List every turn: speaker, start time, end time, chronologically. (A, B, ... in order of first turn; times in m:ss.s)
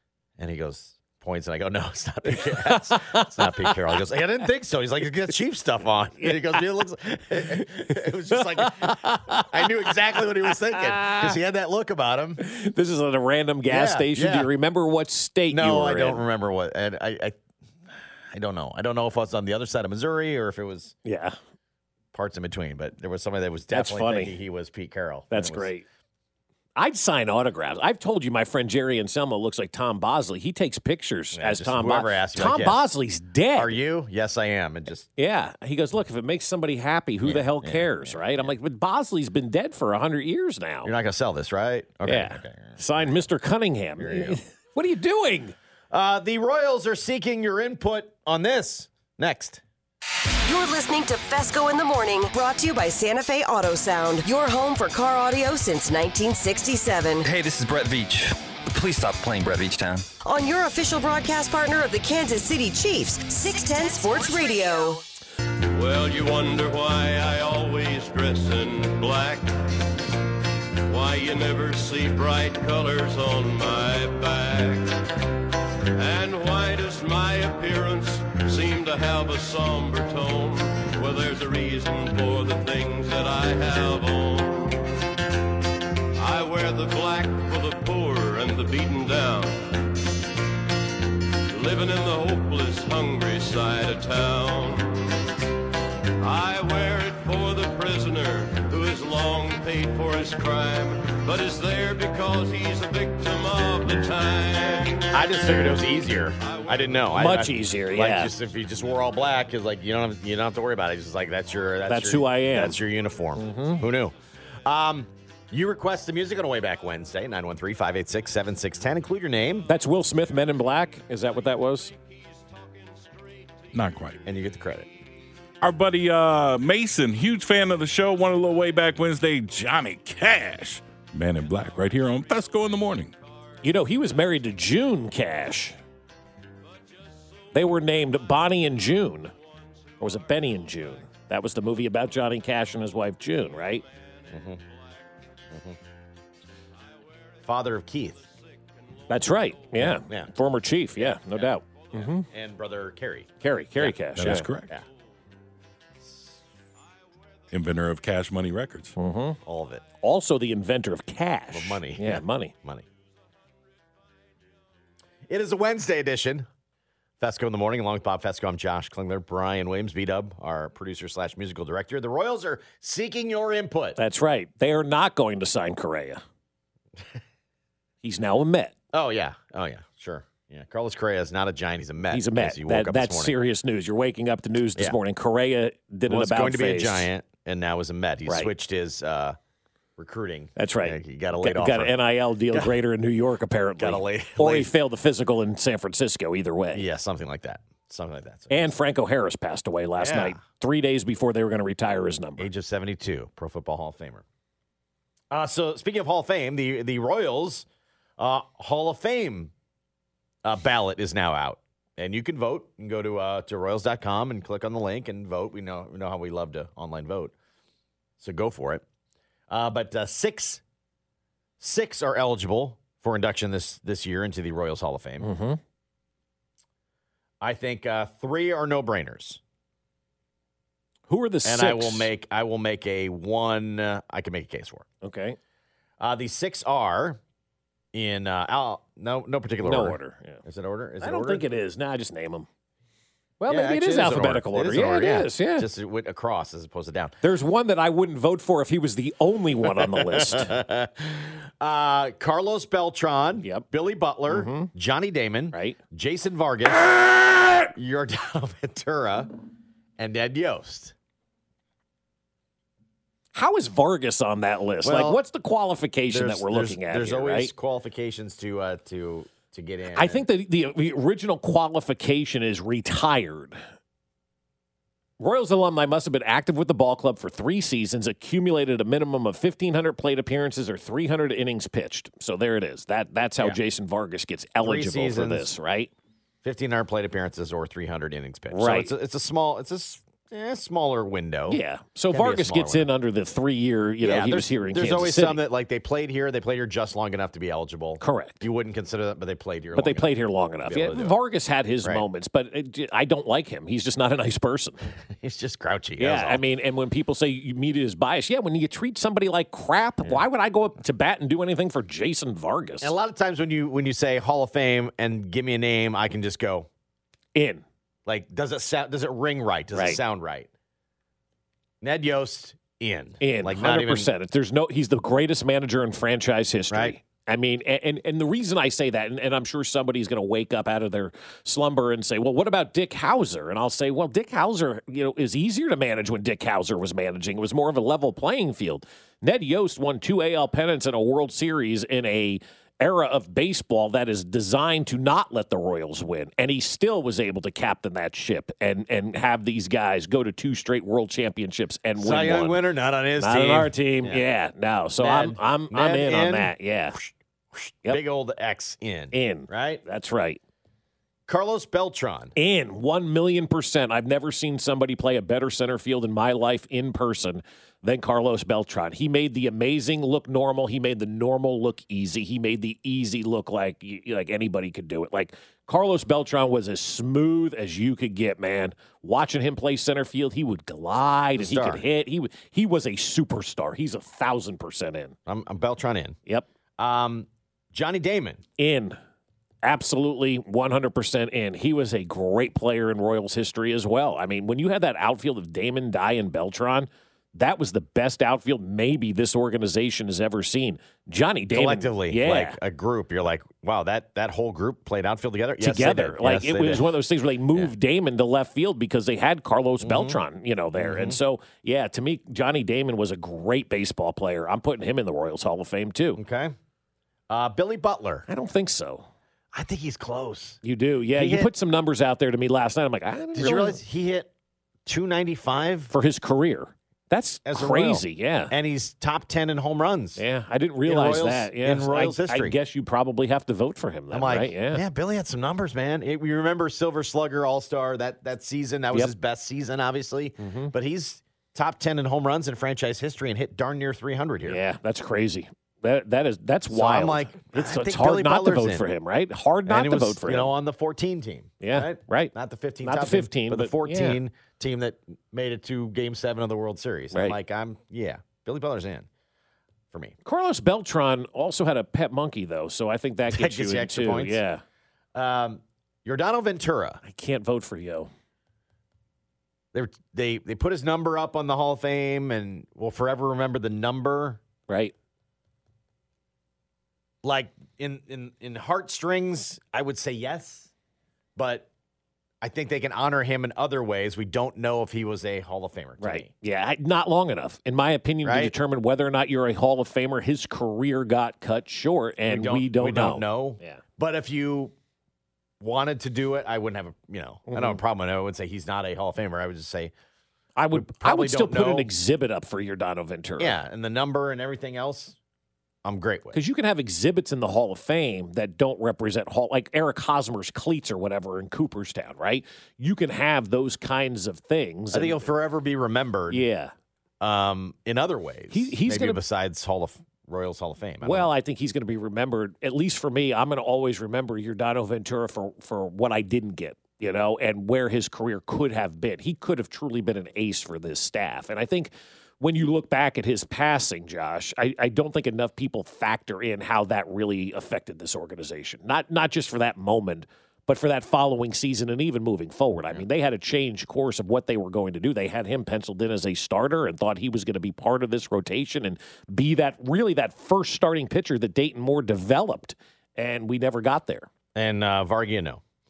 0:00.4-0:12.4 A
0:02.4-0:03.8 B
0:06.2-0:06.6 B
0:08.3-0:09.7 B
0:10.7-0:11.4 B
0:12.4-0:16.2 B
0:13.7-0:14.5 A
0:15.5-0:17.4 A
0:18.3-0:20.9 A
0:21.0-0:21.4 B
0:22.1-0:25.7 A
0:23.7-0:24.4 B
0:25.3-0:25.8 B
0:26.8-0:33.7 B
0:31.4-0:32.8 A
0:33.6-0:35.1 A
0:35.2-0:40.9 B
0:37.2-0:38.5 A
0:40.8-0:42.8 A
0:42.1-0:45.6 B
0:44.0-0:44.4 A
0:45.9-0:49.6 A
0:50.5-0:57.3 C
0:57.3-1:00.0 D
1:00.2-1:05.0 C
1:05.7-1:09.5 E
1:10.9-1:15.0 E
1:16.0-1:24.9 E
1:26.2-1:29.7 E
1:31.5-1:35.2 E
1:36.2-1:45.8 E
1:45.1-1:59.7 A
1:46.4-1:47.1 E
1:47.1-1:48.3 B
1:51.9-1:52.8 B
1:53.4-1:53.8 B
1:59.7-2:01.9 B
2:02.9-2:03.3 E
2:03.7-2:04.2 F
2:04.2-2:04.9 A
2:05.6-2:13.1 F
2:13.6-2:15.8 B
2:17.5-2:19.3 B
2:20.0-2:23.8 B
2:23.9-2:24.6 E
2:24.3-2:24.6 A
2:27.4-2:28.2 A
2:29.1-2:29.7 E
2:29.1-2:32.3 B
2:29.8-2:30.3 A
2:31.0-2:31.5 A
2:32.0-2:34.8 A
2:33.4-2:34.5 B
2:34.2-2:34.7 F
2:37.5-2:39.0 F
2:39.0-2:39.4 B
2:39.4-2:39.8 A
2:40.0-2:42.5 B
2:41.5-2:42.8 A
2:45.3-2:46.5 A
2:47.2-2:54.0 A
2:54.0-2:56.2 B
2:58.0-2:58.7 B
2:58.9-3:03.3 A
3:02.1-3:07.1 B
3:06.1-3:09.4 A
3:10.0-3:11.9 A
3:10.6-3:16.8 B
3:13.8-3:14.7 A
3:16.7-3:18.7 A
3:18.5-3:22.5 B
3:20.0-3:20.4 A
3:22.4-3:24.2 A
3:25.3-3:27.7 A
3:28.2-3:29.5 A
3:30.4-3:37.3 A
3:38.2-3:38.8 A
3:39.5-3:40.6 A
3:41.6-3:45.3 A
3:45.2-3:45.6 B
3:47.4-3:49.4 A
3:51.1-3:52.1 B
3:51.4-3:54.9 A
3:55.0-3:55.4 B
3:56.0-3:57.2 A
3:57.9-4:01.4 A
3:59.6-4:00.4 B
4:01.0-4:02.5 B
4:03.4-4:05.7 B
4:03.5-4:07.2 A
4:07.2-4:10.6 B
4:10.2-4:19.3 A
4:13.4-4:13.7 B
4:14.3-4:14.7 B
4:20.0-4:21.0 A
4:23.3-4:27.5 B
4:24.8-4:25.2 A
4:26.1-4:30.2 A
4:30.0-4:33.6 B
4:35.2-4:45.9 B
4:44.6-4:45.5 A
4:46.4-4:51.6 A
4:48.5-4:48.9 B
4:51.5-4:55.4 B
4:52.1-4:52.9 A
4:54.0-5:01.2 A
4:58.0-4:58.4 B
4:59.8-5:04.8 B
5:05.2-5:06.4 A
5:06.0-5:12.9 B
5:12.8-5:16.7 A
5:17.4-5:17.6 B
5:18.1-5:20.5 A
5:19.7-5:20.0 B
5:21.8-5:24.1 A
5:23.2-5:52.6 B
5:52.0-5:54.2 A
5:53.2-5:57.0 B
5:55.0-5:59.8 A
5:59.1-6:00.4 B
6:01.3-6:02.3 A
6:02.4-6:25.2 B
6:21.4-6:21.8 A
6:25.3-6:26.2 A
6:26.8-6:28.4 A
6:28.6-6:29.0 B
6:29.6-6:42.6 B
6:41.5-6:46.9 A
6:45.6-6:56.2 B
6:49.8-6:50.2 A
6:50.8-6:51.2 A
6:56.2-6:56.6 A
6:57.3-6:58.3 A
6:58.3-6:59.1 B
6:59.5-7:00.6 A
7:00.6-7:03.8 B
7:01.2-7:01.5 A
7:03.3-7:04.3 A
7:04.9-7:05.9 A
7:05.9-7:08.5 B
7:07.5-7:10.2 A
7:10.2-7:14.8 B
7:10.8-7:12.6 A
7:14.1-7:24.6 A
7:20.4-7:20.7 B
7:24.5-7:30.5 B
7:26.7-7:28.9 A
7:29.7-7:39.1 A
7:31.6-7:32.3 B
7:32.8-7:34.2 B
7:40.2-7:44.6 B
7:43.3-7:44.4 A
7:45.2-7:47.0 A
7:47.0-7:48.1 B
7:49.7-7:54.4 A
7:54.7-7:54.9 B
7:57.2-8:00.7 A
8:01.4-8:01.7 A
8:02.4-8:06.3 A
8:06.0-8:13.8 B
8:08.2-8:08.5 A
8:12.3-8:14.7 A
8:15.6-8:19.9 A
8:17.5-8:17.8 B
8:20.6-8:23.6 B
8:20.7-8:21.9 A
8:23.4-8:25.2 A
8:25.8-8:26.4 A
8:26.3-8:35.2 B
8:34.9-8:36.4 A
8:36.3-8:36.7 B
8:37.2-8:41.3 A
8:38.5-8:39.2 B
8:41.0-9:14.3 B
9:14.6-9:15.6 A